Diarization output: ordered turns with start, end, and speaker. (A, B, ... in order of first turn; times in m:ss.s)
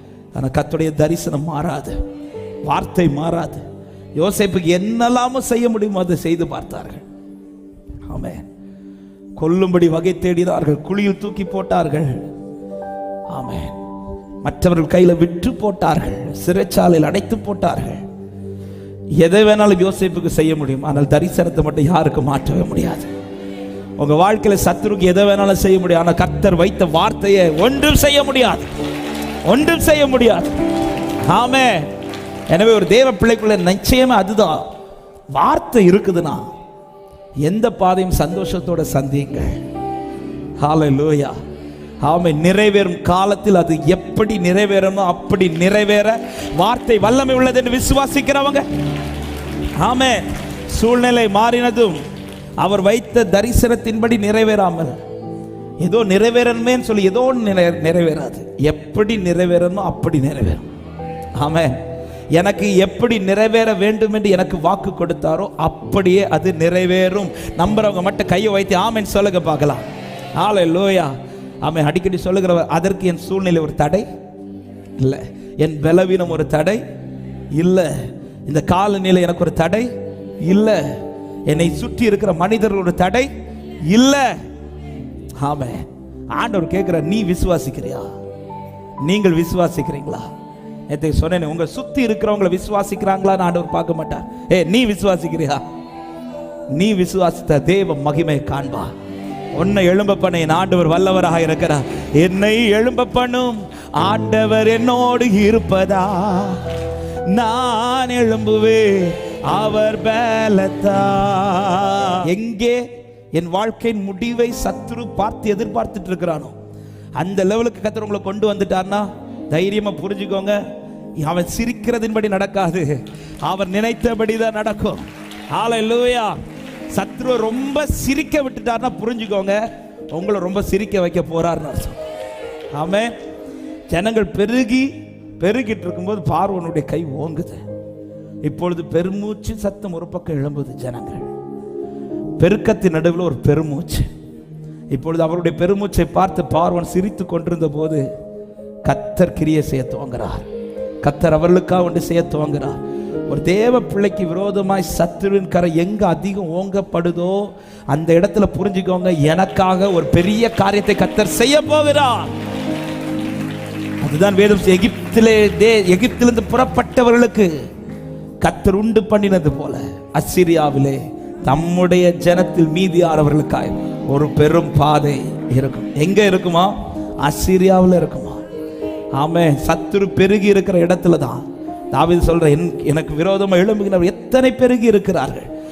0:00.4-0:02.0 A
0:02.7-0:03.6 A
0:04.2-0:07.0 A
0:08.1-0:08.5 A
0:09.4-0:12.2 A
0:13.3-0:13.8 A
0:14.4-0:18.0 A
0:19.2-0:23.1 A
0:24.0-0:28.7 A
0:29.5-0:30.6 A
0:31.3-0:31.9 A
0:32.5-0:34.7 A
0:35.3-0:36.4 A
0:37.4-0:39.6 A
0:40.6-0:41.4 A
0:42.0-0:48.6 A
0:49.8-0:52.0 A
0:52.6-0:55.0 A
0:55.8-1:00.7 A
1:01.4-1:01.8 A
1:02.4-1:09.8 A
1:10.4-1:14.1 A
1:15.0-1:16.8 A
1:17.6-1:19.9 A
1:20.4-1:20.9 A
1:21.5-1:23.3 A
1:23.9-1:24.4 A
1:25.4-1:28.1 A
1:29.0-1:30.3 A
1:30.9-1:35.6 A
1:36.7-1:38.9 A
1:39.5-1:46.6 A
1:47.3-1:52.8 A
1:53.4-1:56.5 A
1:57.2-2:00.6 A
2:01.2-2:06.4 A
2:06.9-2:09.6 A
2:10.1-2:12.0 A
2:12.7-2:13.1 A
2:13.9-2:17.6 A
2:18.4-2:21.3 A
2:22.4-2:24.1 A
2:24.9-2:28.0 A
2:28.8-2:30.5 A
2:31.0-2:42.3 A
2:44.0-2:47.5 A
2:48.4-2:58.4 A
2:59.2-3:05.5 A